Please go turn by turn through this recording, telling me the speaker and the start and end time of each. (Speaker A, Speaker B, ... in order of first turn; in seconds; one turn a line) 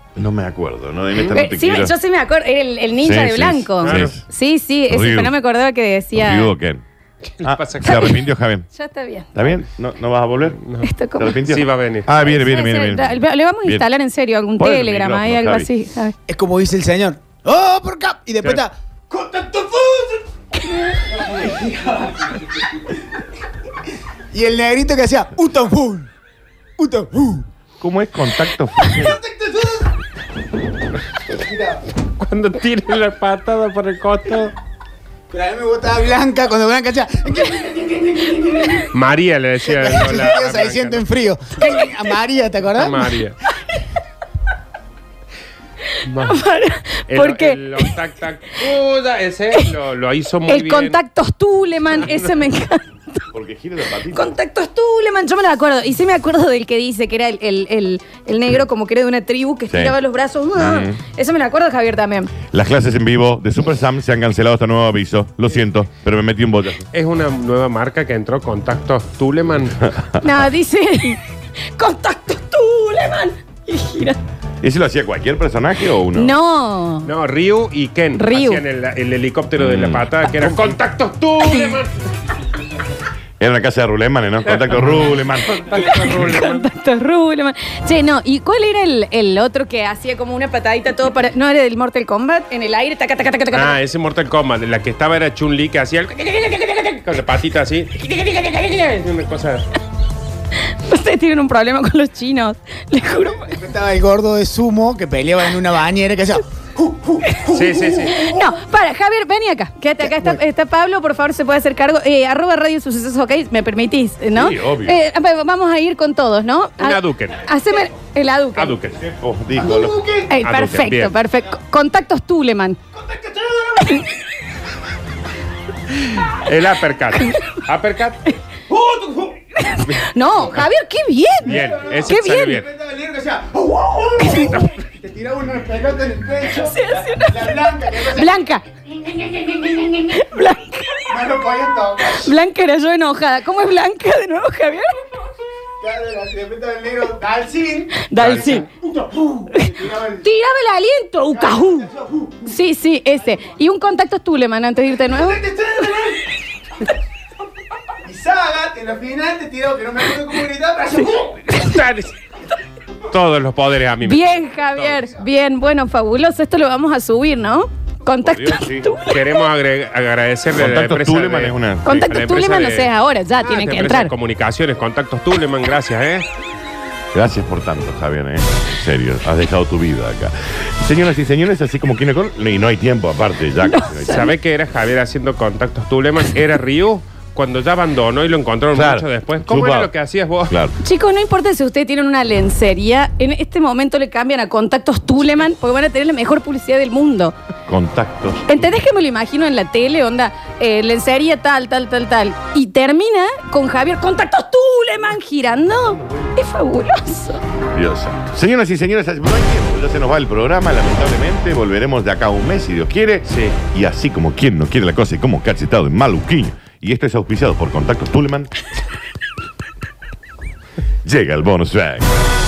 Speaker A: 0.2-2.0
Speaker B: 1.3-6.5
Speaker A: 3.0-4.3
Speaker C: 3.8-4.2
Speaker A: 4.9-5.3
Speaker A: 6.1-6.8
Speaker C: 7.2-8.2
Speaker A: 7.4-8.7
Speaker B: 8.7-9.3
Speaker A: 9.3-10.6
Speaker C: 10.7-10.9
Speaker B: 10.8-11.4
Speaker A: 11.2-13.9
Speaker C: 11.4-12.1
Speaker B: 12.2-16.1
Speaker A: 14.6-15.7
Speaker D: 16.3-20.2
Speaker D: 21.1-22.4
Speaker D: 24.3-26.1
Speaker D: 26.8-27.5
Speaker A: 27.8-29.2
Speaker D: 28.9-29.9
Speaker D: 31.4-31.8
Speaker C: 32.2-34.5
Speaker D: 35.3-38.8
Speaker C: 38.9-41.1
Speaker D: 39.6-43.1
Speaker B: 41.6-41.9
Speaker C: 42.8-43.4
Speaker C: 46.1-46.4
Speaker B: 46.2-47.9
Speaker C: 47.1-51.0
Speaker B: 50.5-53.2
Speaker A: 53.3-54.4
Speaker B: 54.1-62.3
Speaker A: 59.7-60.0
Speaker A: 60.6-61.0
Speaker A: 62.5-66.9
Speaker C: 66.9-69.9
Speaker B: 70.2-71.2
Speaker B: 71.7-74.2
Speaker A: 74.6-76.4
Speaker B: 76.1-77.1
Speaker C: 77.0-81.9
Speaker B: 78.2-78.6
Speaker A: 79.6-80.1
Speaker A: 83.4-85.6
Speaker C: 84.5-86.7
Speaker B: 85.7-93.8
Speaker C: 93.5-99.7
Speaker B: 100.7-103.6
Speaker D: 103.4-107.8
Speaker C: 107.5-108.3
Speaker B: 108.2-118.8
Speaker D: 110.0-110.4
Speaker A: 114.3-115.0
Speaker C: 116.8-117.5
Speaker C: 118.6-119.0
Speaker A: 119.0-120.2
Speaker D: 119.8-120.2
Speaker B: 120.3-122.8
Speaker C: 120.4-121.2
Speaker D: 123.1-123.9
Speaker B: 123.8-124.1
Speaker C: 126.4-128.4
Speaker D: 128.7-129.4
Speaker B: 129.6-132.6
Speaker C: 131.5-132.7
Speaker D: 131.5-138.3
Speaker C: 134.4-134.8
Speaker B: 136.6-138.7
Speaker D: 139.1-140.1
Speaker B: 139.8-141.2
Speaker D: 141.1-142.3
Speaker B: 142.1-145.1
Speaker D: 145.8-150.3
Speaker B: 148.0-148.7
Speaker B: 149.6-151.9
Speaker D: 151.3-152.5
Speaker B: 152.4-156.2
Speaker D: 155.4-156.1
Speaker D: 158.1-161.4
Speaker C: 161.5-162.2
Speaker C: 163.1-165.1
Speaker B: 164.0-169.2
Speaker A: 168.2-168.9
Speaker C: 169.1-176.3
Speaker A: 170.6-171.9
Speaker B: 171.8-174.1
Speaker A: 177.1-184.3
Speaker B: 183.6-184.3
Speaker C: 184.1-190.6
Speaker A: 188.7-189.9
Speaker A: 190.5-190.7
Speaker B: 190.8-197.4
Speaker A: 197.7-198.7
Speaker B: 198.5-207.4
Speaker A: 205.9-206.3
Speaker A: 207.7-218.5
Speaker C: 213.3-213.6
Speaker A: 221.0-222.2